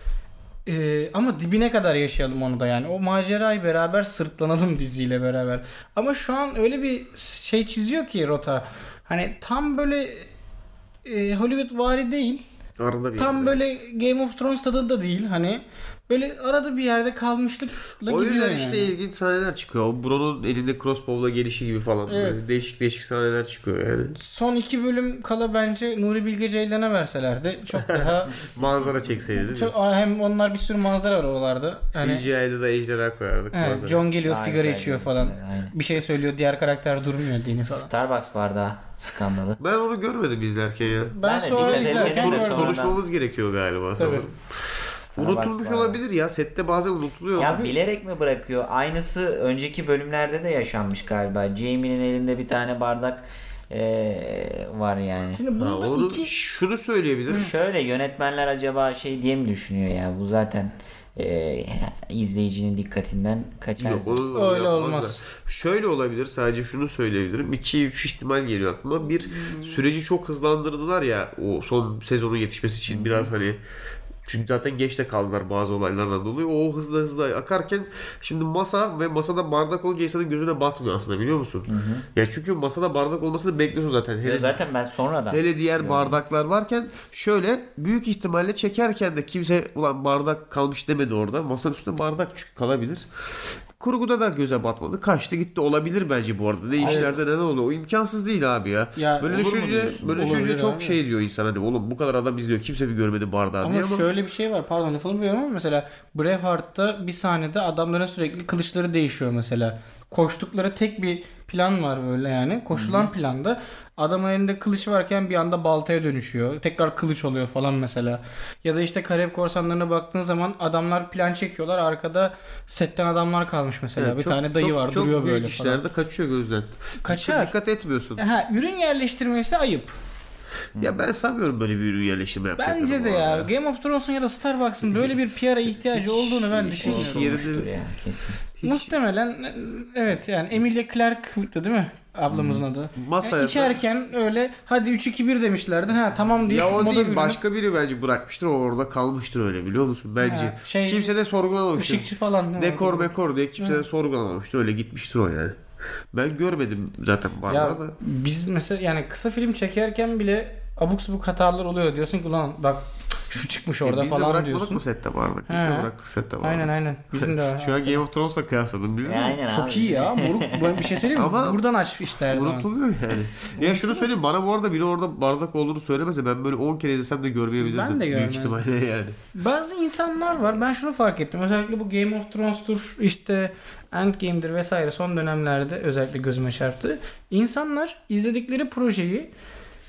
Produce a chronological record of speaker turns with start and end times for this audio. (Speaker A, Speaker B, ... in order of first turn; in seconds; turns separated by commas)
Speaker A: 0.7-10.3, Speaker A: 11.1-12.4, Speaker B: 12.8-13.6, Speaker A: 13.2-18.9, Speaker B: 18.1-24.2, Speaker A: 22.1-22.4, Speaker A: 24.2-28.4, Speaker B: 27.8-29.7, Speaker A: 29.4-32.2, Speaker B: 31.9-34.0, Speaker A: 33.5-37.9, Speaker C: 34.2-35.8, Speaker C: 37.7-39.6, Speaker B: 39.6-44.4, Speaker A: 41.0-42.8, Speaker C: 41.2-43.0, Speaker A: 44.0-44.3, Speaker C: 45.1-46.0, Speaker B: 45.2-47.7, Speaker C: 47.4-55.4, Speaker A: 47.4-47.7, Speaker A: 55.4-56.3, Speaker B: 55.6-57.5, Speaker C: 57.3-64.2, Speaker B: 63.8-73.6, Speaker A: 64.3-65.2, Speaker A: 69.3-69.7, Speaker C: 72.9-73.3, Speaker B: 74.2-84.6, Speaker C: 81.7-82.0, Speaker C: 84.2-86.2, Speaker B: 85.3-93.1, Speaker B: 93.8-104.1, Speaker C: 96.8-97.2, Speaker A: 96.8-97.2, Speaker A: 99.0-101.0, Speaker C: 99.9-100.5, Speaker A: 103.6-125.8, Speaker C: 112.7-113.1, Speaker B: 124.0-128.2, Speaker A: 127.0-127.5, Speaker A: 128.2-130.0, Speaker B: 130.8-133.5, Speaker A: 132.6-137.4, Speaker B: 135.8-137.7, Speaker C: 136.8-138.4, Speaker B: 138.6-138.9, Speaker A: 138.6-147.4, Speaker C: 142.3-142.6, Speaker B: 142.9-143.8, Speaker B: 146.5-155.6, Speaker A: 150.2-151.1, Speaker A: 151.8-153.8, Speaker B: 156.1-157.9, Speaker A: 157.5-164.8, Speaker B: 163.8-169.4, Speaker A: 165.5-165.9, Speaker A: 166.4-168.0, Speaker C: 169.0-171.1, Speaker A: 169.5-172.7, Speaker B: 171.2-171.6, Speaker B: 172.2-179.2, Speaker A: 173.6-174.1, Speaker A: 177.6-178.6, Speaker A: 179.3-189.3